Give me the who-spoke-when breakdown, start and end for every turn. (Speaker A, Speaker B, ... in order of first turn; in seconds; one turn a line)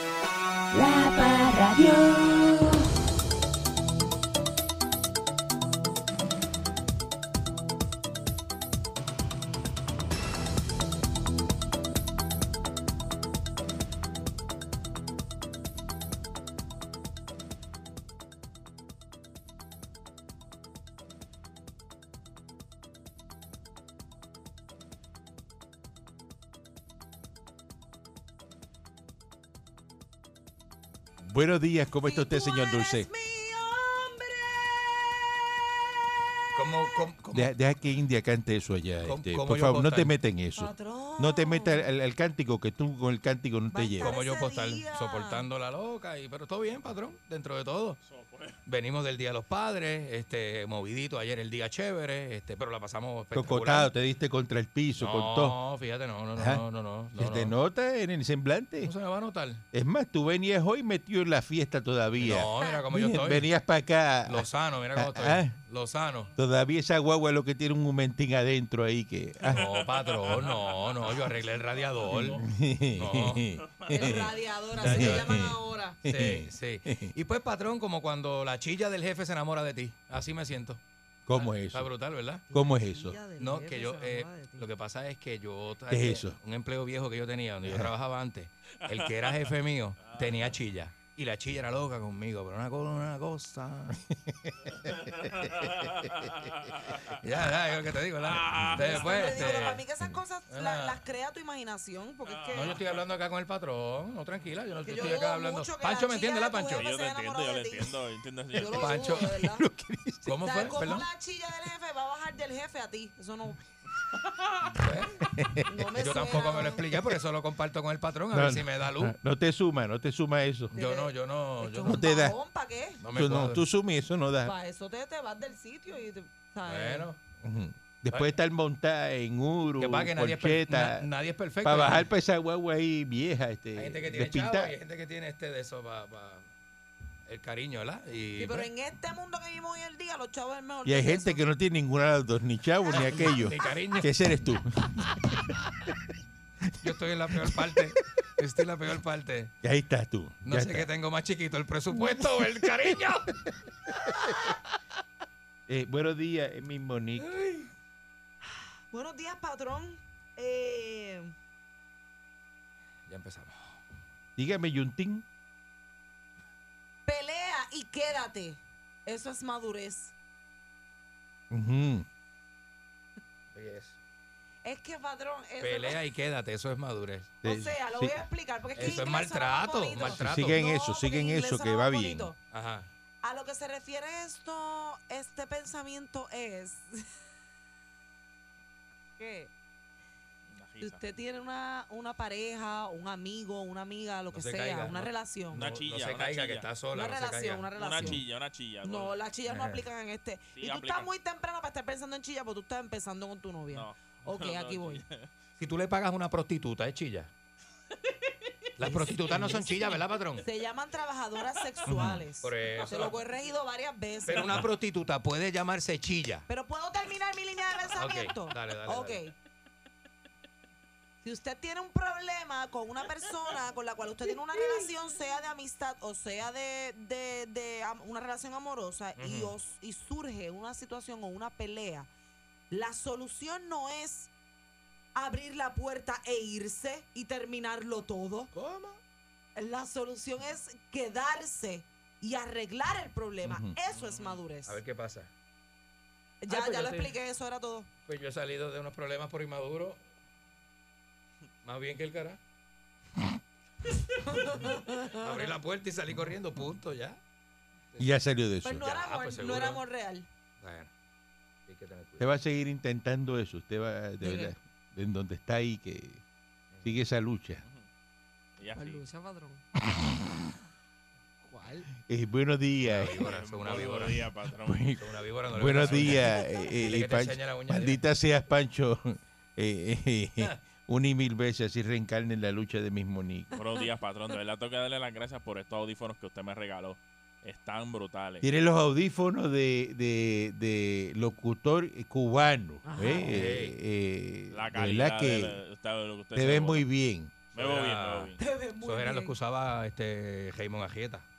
Speaker A: 0.7-2.8
Speaker B: 31.2-33.1
Speaker C: 32.0-34.8
Speaker D: 36.5-37.5
Speaker B: 37.3-44.2
Speaker D: 39.0-40.1
Speaker C: 40.5-41.9
Speaker C: 43.7-45.5
Speaker D: 44.0-48.0
Speaker E: 48.0-48.6
Speaker D: 48.7-53.9
Speaker B: 53.3-55.6
Speaker D: 55.0-57.5
Speaker B: 56.4-58.9
Speaker D: 58.8-59.6
Speaker B: 59.7-65.6
Speaker D: 62.2-63.5
Speaker D: 64.3-66.3
Speaker B: 66.4-69.7
Speaker E: 69.4-72.4
Speaker D: 69.5-72.4
Speaker B: 72.1-77.1
Speaker D: 73.0-73.5
Speaker C: 73.9-76.0
Speaker D: 74.8-75.4
Speaker D: 76.0-80.8
Speaker B: 81.3-81.9
Speaker D: 81.7-82.4
Speaker B: 82.5-83.2
Speaker C: 82.5-84.7
Speaker D: 83.4-94.1
Speaker B: 85.9-86.4
Speaker B: 87.7-87.9
Speaker E: 89.0-89.5
Speaker E: 94.9-97.2
Speaker D: 97.1-99.9
Speaker E: 98.2-99.8
Speaker C: 98.8-102.8
Speaker D: 100.5-101.0
Speaker E: 102.3-103.0
Speaker D: 102.5-106.8
Speaker C: 104.8-108.0
Speaker E: 106.8-109.2
Speaker C: 108.5-109.7
Speaker D: 108.7-109.3
Speaker B: 109.2-110.9
Speaker D: 110.3-111.1
Speaker C: 110.4-113.6
Speaker D: 114.6-119.2
Speaker B: 115.2-117.2
Speaker C: 115.7-116.8
Speaker B: 118.3-120.8
Speaker D: 120.7-122.0
Speaker C: 120.7-123.0
Speaker B: 121.8-122.4
Speaker D: 123.0-123.6
Speaker B: 123.1-124.5
Speaker C: 124.4-127.1
Speaker D: 126.7-127.2
Speaker B: 127.4-131.1
Speaker D: 129.8-132.1
Speaker B: 131.6-134.8
Speaker D: 133.8-136.5
Speaker D: 137.2-138.7
Speaker C: 138.4-141.4
Speaker B: 140.8-145.9
Speaker D: 142.9-144.1
Speaker D: 146.8-149.5
Speaker B: 147.3-148.0
Speaker B: 149.6-150.9
Speaker D: 150.4-154.6
Speaker B: 151.9-153.5
Speaker B: 154.1-154.4
Speaker B: 155.7-157.4
Speaker D: 157.2-157.7
Speaker C: 158.9-161.3
Speaker D: 163.1-163.7
Speaker B: 164.4-165.2
Speaker C: 167.1-170.1
Speaker B: 171.5-172.1
Speaker D: 173.5-174.0
Speaker C: 174.6-176.0
Speaker D: 175.6-177.4
Speaker B: 177.4-178.2
Speaker C: 177.4-182.4
Speaker B: 178.8-179.0
Speaker D: 178.8-180.6
Speaker B: 180.0-182.3
Speaker D: 182.5-182.9
Speaker C: 183.2-187.0
Speaker C: 189.2-189.5
Speaker E: 190.5-191.0
Speaker C: 190.8-195.6
Speaker D: 194.3-198.2
Speaker E: 195.6-196.7
Speaker C: 196.9-198.2
Speaker E: 197.8-199.2
Speaker C: 198.8-205.0
Speaker D: 199.5-199.8
Speaker E: 200.6-201.1
Speaker E: 203.7-205.3
Speaker D: 205.6-207.3
Speaker D: 208.8-210.4
Speaker C: 208.8-209.8
Speaker C: 210.4-214.6
Speaker D: 211.9-213.1
Speaker B: 211.9-212.2
Speaker D: 214.2-216.5
Speaker C: 216.5-219.3
Speaker D: 217.9-219.2
Speaker C: 221.2-232.1
Speaker D: 229.2-229.5
Speaker C: 232.7-234.3
Speaker C: 235.2-238.5
Speaker D: 238.5-239.0
Speaker C: 239.6-244.8
Speaker B: 243.4-243.8
Speaker E: 243.9-244.4
Speaker D: 244.7-245.3
Speaker C: 246.4-247.9
Speaker D: 246.5-247.2
Speaker D: 248.1-250.0
Speaker D: 251.6-252.4
Speaker C: 254.2-255.5
Speaker D: 254.6-257.2
Speaker B: 258.0-258.9
Speaker C: 258.6-260.3
Speaker D: 258.8-259.8
Speaker D: 260.6-260.9
Speaker D: 261.6-262.3
Speaker B: 262.2-266.2
Speaker C: 264.2-264.5
Speaker D: 266.7-267.0
Speaker B: 266.8-267.6
Speaker E: 268.6-269.0
Speaker C: 268.7-269.6
Speaker B: 269.9-270.2
Speaker D: 271.4-271.9
Speaker B: 271.9-273.2
Speaker D: 272.8-274.3
Speaker E: 273.2-274.9
Speaker B: 274.6-283.5
Speaker D: 275.0-278.0
Speaker E: 275.8-276.2
Speaker E: 283.5-288.4
Speaker B: 288.4-295.6
Speaker C: 292.9-293.3
Speaker D: 293.1-293.7
Speaker E: 294.5-296.8
Speaker B: 296.3-297.3
Speaker E: 297.5-298.4
Speaker D: 297.5-301.2
Speaker C: 298.4-299.3